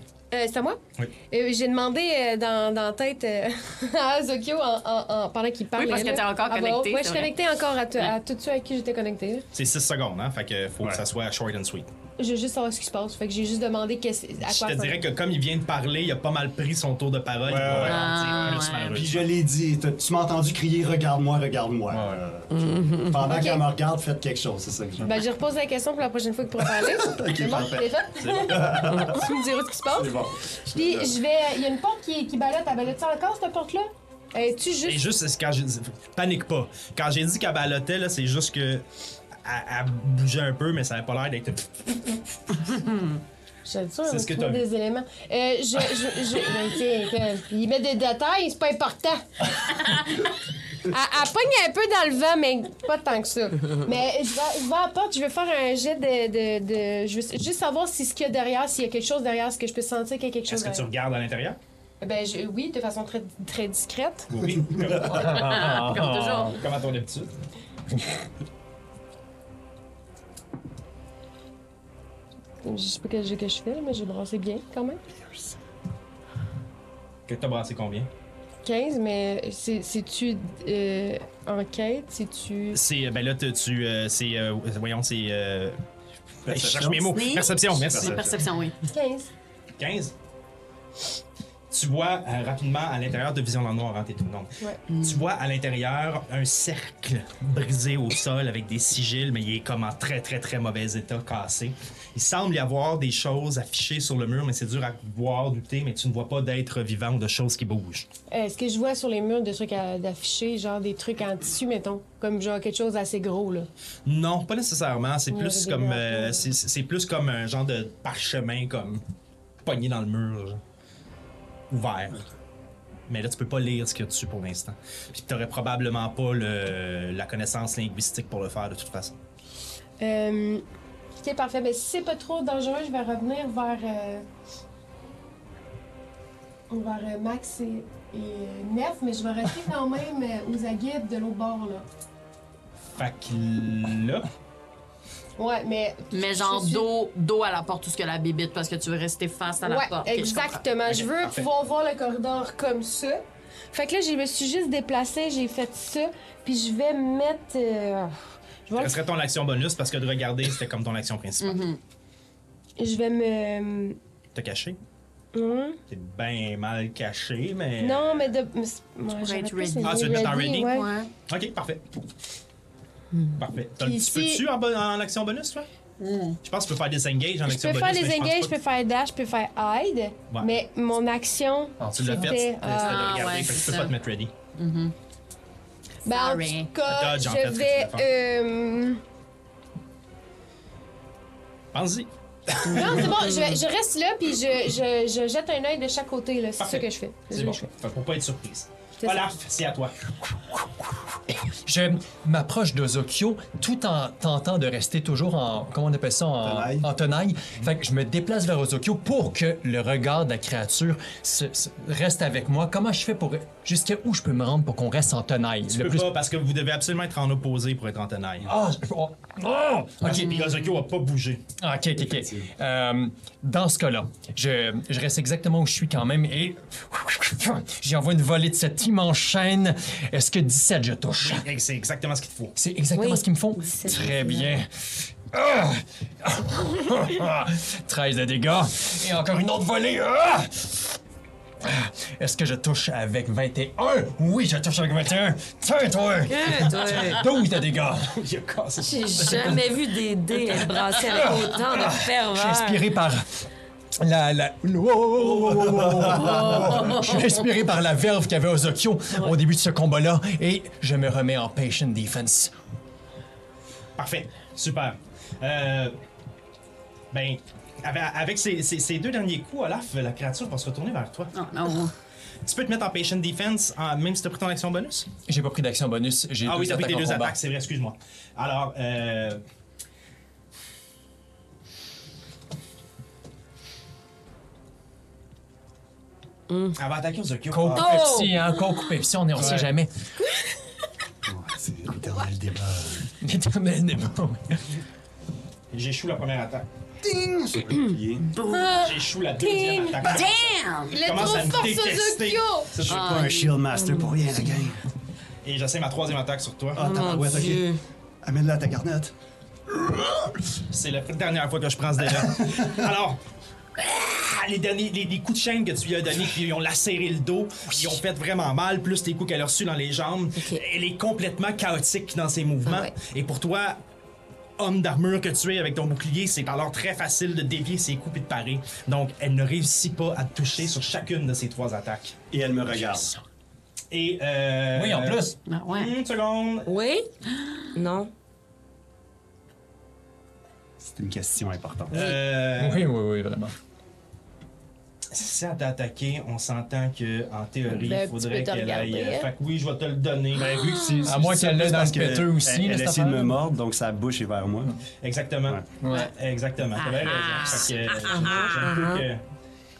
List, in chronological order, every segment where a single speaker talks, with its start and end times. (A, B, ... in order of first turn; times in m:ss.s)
0:00.3-0:09.5 A
0:05.8-0:07.3 B
0:09.5-0:11.9 C
0:12.2-0:15.1 A
0:14.4-0:19.3 C
0:17.4-0:25.2 D
0:17.8-0:19.0 B
0:21.9-0:22.2 E
0:22.5-0:23.1 F
0:23.2-0:23.6 A
0:25.0-0:35.1 A
0:26.6-0:29.3 D
0:28.2-0:29.0 C
0:29.9-0:31.2 D
0:34.8-0:38.8 C
0:39.4-0:42.2 C
0:43.7-0:49.7 A
0:44.1-0:44.6 C
0:50.9-1:00.9 A
1:00.5-1:01.6 C
1:02.0-1:04.4 A
1:04.3-1:05.5 C
1:04.9-1:06.6 E
1:05.2-1:06.6 B
1:06.6-1:07.3 C
1:12.6-1:15.0 A
1:17.3-1:18.1 C
1:18.6-1:22.8 A
1:22.7-1:25.8 C
1:26.5-1:28.3 C
1:26.5-1:28.4 D
1:27.1-1:28.8 B
1:28.8-1:29.3 A
1:29.8-1:30.1 C
1:31.7-1:48.1 C
1:48.3-1:53.7 A
1:54.1-1:59.0 C
1:55.3-1:56.5 A
1:59.6-2:00.6 C
2:01.7-2:02.3 C
2:03.1-2:09.2 C
2:10.0-2:10.6 A
2:11.2-2:14.2 A
2:16.7-2:21.9 A
2:23.0-2:24.2 C
2:25.4-2:26.9 A
2:26.1-2:30.6 B
2:29.6-2:38.2 A
2:30.9-2:31.5 C
2:38.7-2:39.0 A
2:38.8-2:41.7 C
2:41.4-2:41.8 B
2:42.8-2:44.0 A
2:44.3-2:44.8 C
2:45.3-2:45.8 A
2:45.9-2:48.3 C
2:47.8-2:50.9 A
2:49.1-2:51.1 B
2:49.8-2:51.8 C
2:53.4-2:55.7 C
2:53.8-2:54.4 A
2:56.0-2:56.4 B
2:56.4-2:58.5 C
2:57.4-3:03.4 A
3:00.3-3:00.6 C
3:01.8-3:02.4 E
3:01.9-3:04.3 C
3:02.8-3:04.0 B
3:04.6-3:05.0 B
3:06.0-3:09.0 A
3:06.1-3:06.7 B
3:06.9-3:08.1 C
3:11.7-3:13.3 C
3:12.7-3:17.7 A
3:16.6-3:19.9 C
3:21.4-3:36.1 E
3:26.4-3:26.9 D
3:35.7-3:38.5 C
3:38.4-3:40.6 E
3:40.0-3:41.4 C
3:41.6-3:51.5 E
3:42.1-3:42.5 D
3:51.2-3:52.6 C
3:52.6-4:01.0 E
3:52.9-3:54.5 F
4:01.6-4:08.2 E
4:06.3-4:07.2 F
4:08.2-4:09.6 C
4:08.8-4:12.8 F
4:09.3-4:09.6 E
4:10.6-4:13.4 E
4:14.0-4:22.5 E
4:15.2-4:16.8 D
4:16.2-4:17.5 B
4:24.0-4:26.0 C
4:27.1-4:31.4 C
4:31.3-4:31.9 B
4:32.4-4:35.1 C
4:35.3-4:37.4 E
4:36.4-4:39.4 C
4:46.5-4:46.8 F
4:46.8-4:48.0 C
4:47.5-4:49.9 E
4:47.7-4:48.8 F
4:49.4-4:49.7 D
4:51.3-4:53.1 D
4:53.2-4:54.8 E
4:55.7-4:56.7 C
4:57.0-4:58.4 D
4:58.4-4:58.8 B
4:58.7-5:03.1 C
4:59.4-5:00.0 A
5:00.0-5:01.0 B
5:00.9-5:02.8 A
5:02.8-5:04.8 D
5:02.8-5:03.6 B
5:03.8-5:04.2 F
5:05.4-5:06.9 C
5:06.8-5:07.7 D
5:06.8-5:07.8 F
5:08.2-5:09.1 D
5:10.7-5:13.2 C
5:12.2-5:12.8 D
5:13.8-5:23.8 C
5:20.4-5:20.6 F
5:22.7-5:22.9 F
5:24.6-5:32.2 C
5:32.3-5:33.1 D
5:33.9-5:36.7 C
5:34.7-5:35.4 E
5:35.5-5:35.9 B
5:36.7-5:37.1 F
5:37.7-5:38.1 F
5:40.8-5:42.2 D
5:41.9-5:42.9 C
5:42.5-5:43.6 E
5:45.1-5:50.6 C
5:47.8-5:49.3 A
5:50.3-5:54.8 D
5:50.6-5:51.1 B
5:51.0-5:53.4 E
5:55.0-5:59.2 C
5:55.8-5:56.1 E
5:56.8-5:58.7 B
5:58.1-5:59.0 F